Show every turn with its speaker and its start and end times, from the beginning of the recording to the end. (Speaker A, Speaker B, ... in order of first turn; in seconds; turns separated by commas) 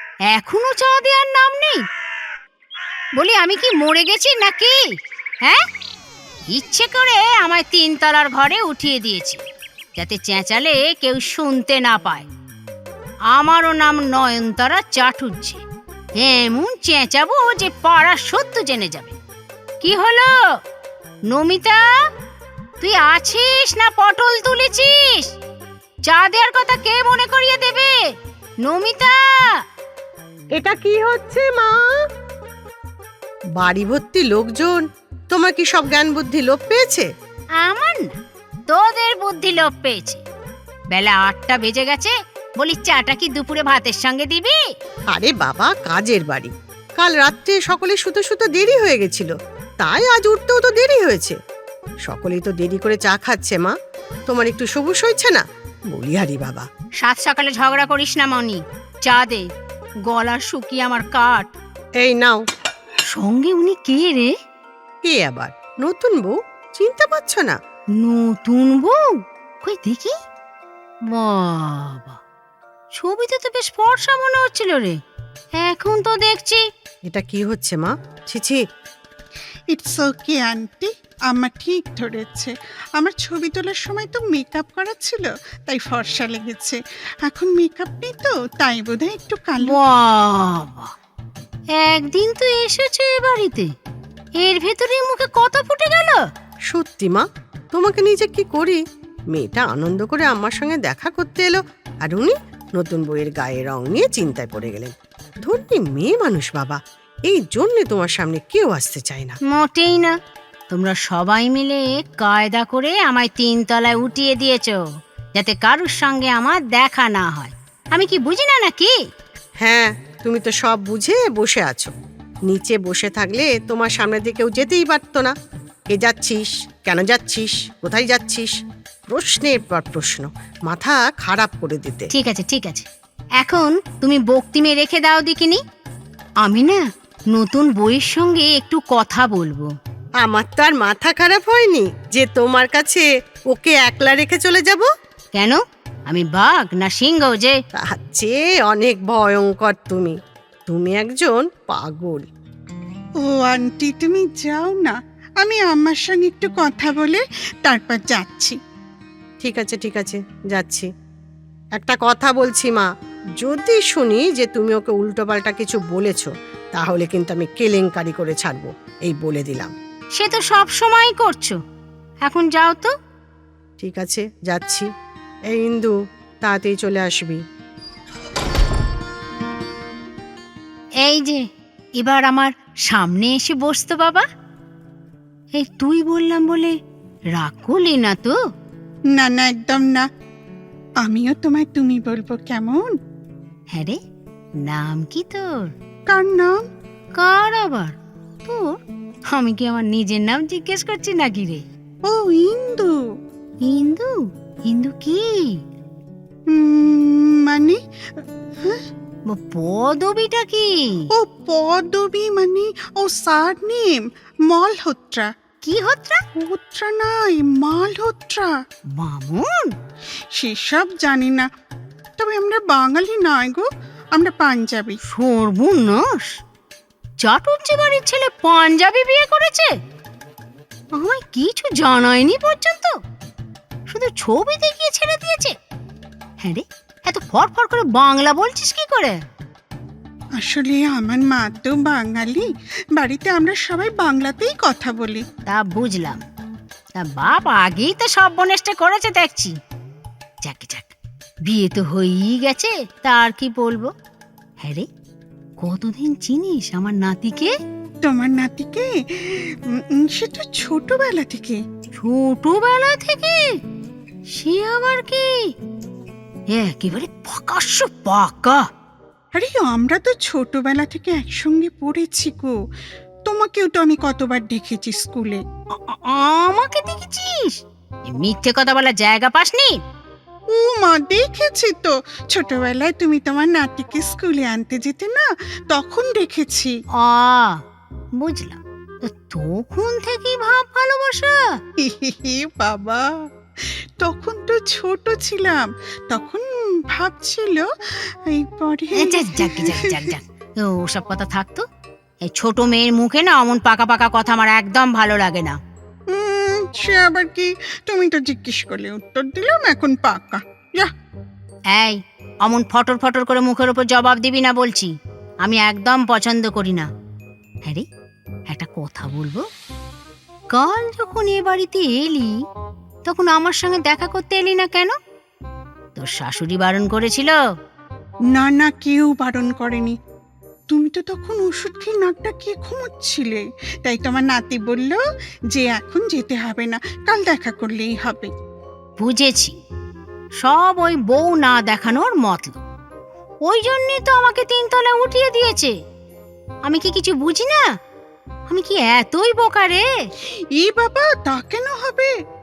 Speaker A: 0.3-1.8, Speaker A: 3.1-4.8, Speaker A: 6.5-9.4, Speaker A: 9.9-12.3, Speaker A: 13.3-15.6, Speaker A: 16.2-19.1, Speaker A: 19.8-20.3, Speaker A: 21.3-21.8, Speaker A: 22.8-25.3, Speaker A: 26.1-27.9, Speaker A: 28.6-29.5, Speaker B: 30.6-31.7, Speaker B: 33.6-37.0, Speaker A: 37.6-38.1, Speaker A: 38.7-40.2, Speaker A: 40.9-44.6, Speaker B: 45.1-51.4, Speaker B: 52.1-53.7, Speaker B: 54.3-56.6, Speaker A: 57.0-59.5, Speaker A: 60.1-61.5, Speaker B: 62.0-62.4, Speaker A: 63.1-64.3, Speaker B: 65.0-67.5, Speaker A: 68.0-69.0, Speaker A: 69.6-70.1, Speaker A: 71.1-72.2, Speaker A: 73.0-75.0, Speaker A: 75.6-76.6, Speaker B: 77.1-78.6, Speaker C: 79.7-89.8, Speaker A: 89.6-90.9, Speaker A: 91.8-93.7, Speaker A: 94.4-96.2, Speaker B: 96.7-98.8, Speaker B: 99.3-109.4, Speaker A: 109.5-110.1, Speaker A: 110.7-114.8, Speaker A: 115.4-118.9, Speaker B: 119.6-121.9, Speaker B: 122.5-125.3, Speaker B: 125.9-128.5, Speaker B: 129.1-132.1, Speaker A: 132.1-132.8, Speaker A: 133.4-135.6, Speaker A: 136.4-139.7, Speaker B: 140.2-144.9, Speaker A: 145.3-147.6, Speaker B: 147.9-150.1, Speaker B: 150.7-152.2, Speaker C: 153.2-158.6, Speaker B: 159.4-160.9, Speaker B: 161.8-162.9, Speaker B: 163.4-169.7, Speaker A: 170.2-171.6, Speaker A: 172.2-172.9, Speaker B: 173.8-174.8, Speaker B: 175.5-177.4, Speaker A: 181.0-181.4, Speaker A: 182.0-184.2, Speaker A: 185.5-186.7, Speaker A: 187.3-188.3, Speaker C: 189.2-190.0, Speaker C: 191.0-192.9, Speaker A: 194.6-195.7, Speaker C: 196.1-196.6, Speaker A: 197.2-201.6, Speaker C: 202.1-202.9, Speaker A: 203.6-204.1, Speaker A: 204.7-205.5, Speaker C: 206.5-208.8, Speaker A: 209.3-210.7, Speaker C: 211.1-215.3, Speaker A: 215.6-216.2, Speaker C: 216.3-218.5, Speaker A: 219.0-219.7, Speaker C: 220.3-221.5, Speaker C: 222.2-225.0, Speaker A: 225.1-226.4, Speaker A: 227.2-229.7, Speaker A: 230.9-232.9, Speaker A: 233.9-235.5, Speaker A: 236.4-239.2, Speaker C: 240.4-245.2, Speaker A: 245.5-246.2, Speaker A: 247.0-249.5, Speaker A: 250.4-250.9, Speaker A: 251.4-253.9, Speaker A: 255.6-257.5, Speaker C: 258.0-261.6, Speaker A: 262.0-263.4, Speaker A: 264.4-265.3, Speaker A: 266.5-268.6, Speaker C: 269.3-272.5, Speaker C: 273.2-275.4, Speaker A: 275.8-277.6, Speaker A: 278.1-279.8, Speaker C: 280.5-286.7, Speaker A: 287.0-287.6, Speaker A: 288.2-291.3, Speaker C: 291.8-293.1, Speaker C: 293.7-297.7, Speaker C: 298.3-300.1, Speaker A: 299.0-301.6, Speaker A: 302.2-305.6, Speaker C: 306.1-310.9, Speaker A: 311.7-314.9, Speaker A: 315.4-316.9, Speaker A: 318.5-319.4, Speaker A: 320.5-322.3, Speaker A: 323.1-324.9, Speaker A: 325.9-327.4, Speaker C: 328.3-329.9, Speaker C: 330.7-335.0, Speaker C: 335.5-338.3, Speaker A: 339.0-339.6, Speaker A: 340.4-342.6, Speaker A: 343.4-345.7, Speaker A: 346.6-347.6, Speaker A: 348.5-349.9, Speaker C: 350.6-352.1